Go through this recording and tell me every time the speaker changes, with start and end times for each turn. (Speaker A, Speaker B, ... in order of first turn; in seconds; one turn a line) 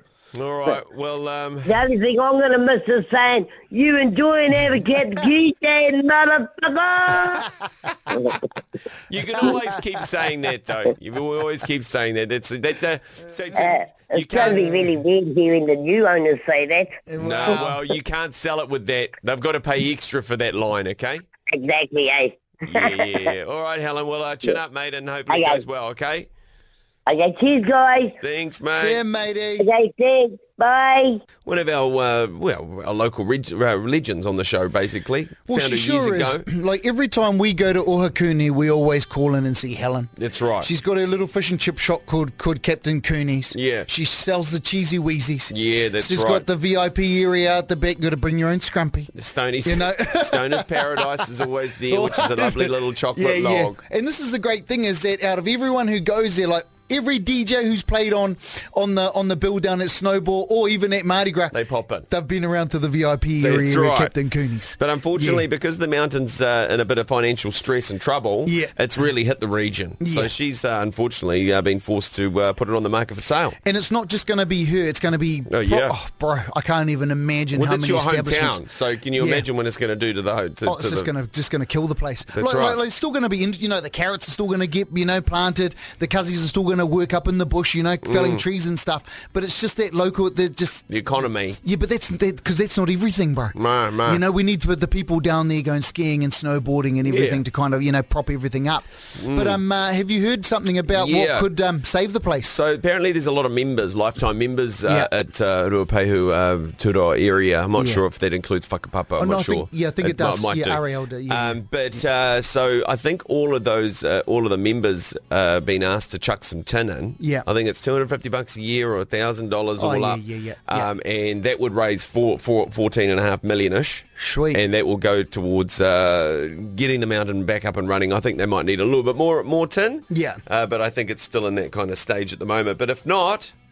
Speaker A: 0.3-1.8
Speaker B: 1.7-7.5
Speaker B: 8.1-8.4
Speaker A: 9.1-14.9
Speaker B: 13.5-17.6
Speaker C: 14.5-14.9
Speaker C: 17.1-17.8
Speaker A: 17.2-21.2
Speaker B: 21.5-23.2
Speaker A: 22.7-26.3
Speaker B: 25.3-25.6
Speaker B: 27.1-28.2
Speaker A: 28.2-29.0
Speaker C: 28.7-29.7
Speaker B: 29.6-31.2
Speaker A: 31.4-36.5
Speaker C: 35.5-49.1
Speaker A: 40.2-40.7
Speaker A: 43.5-43.9
Speaker A: 45.5-46.5
Speaker A: 49.1-53.8
Speaker C: 49.6-51.1
Speaker C: 51.9-61.6
Speaker A: 61.5-62.1
Speaker C: 62.1-65.5
Speaker A: 63.4-64.2
Speaker A: 64.8-73.6
Speaker C: 68.5-68.8
Speaker C: 70.0-70.3
Speaker C: 73.6-78.6
Speaker A: 75.5-76.0
Speaker A: 77.5-81.1
Speaker C: 79.2-79.5
Speaker C: 80.7-102.5
Speaker A: 82.3-82.8
Speaker A: 88.0-88.4
Speaker A: 90.9-91.6
Speaker A: 93.5-94.2
Speaker A: 97.0-97.4
Speaker A: 99.2-99.6
Speaker A: 100.9-101.5
Speaker A: 102.5-133.5
Speaker C: 107.8-108.0
Speaker C: 109.2-111.6
Speaker C: 117.2-117.5
Speaker C: 119.8-120.9
Speaker C: 124.2-124.6
Speaker C: 130.1-130.4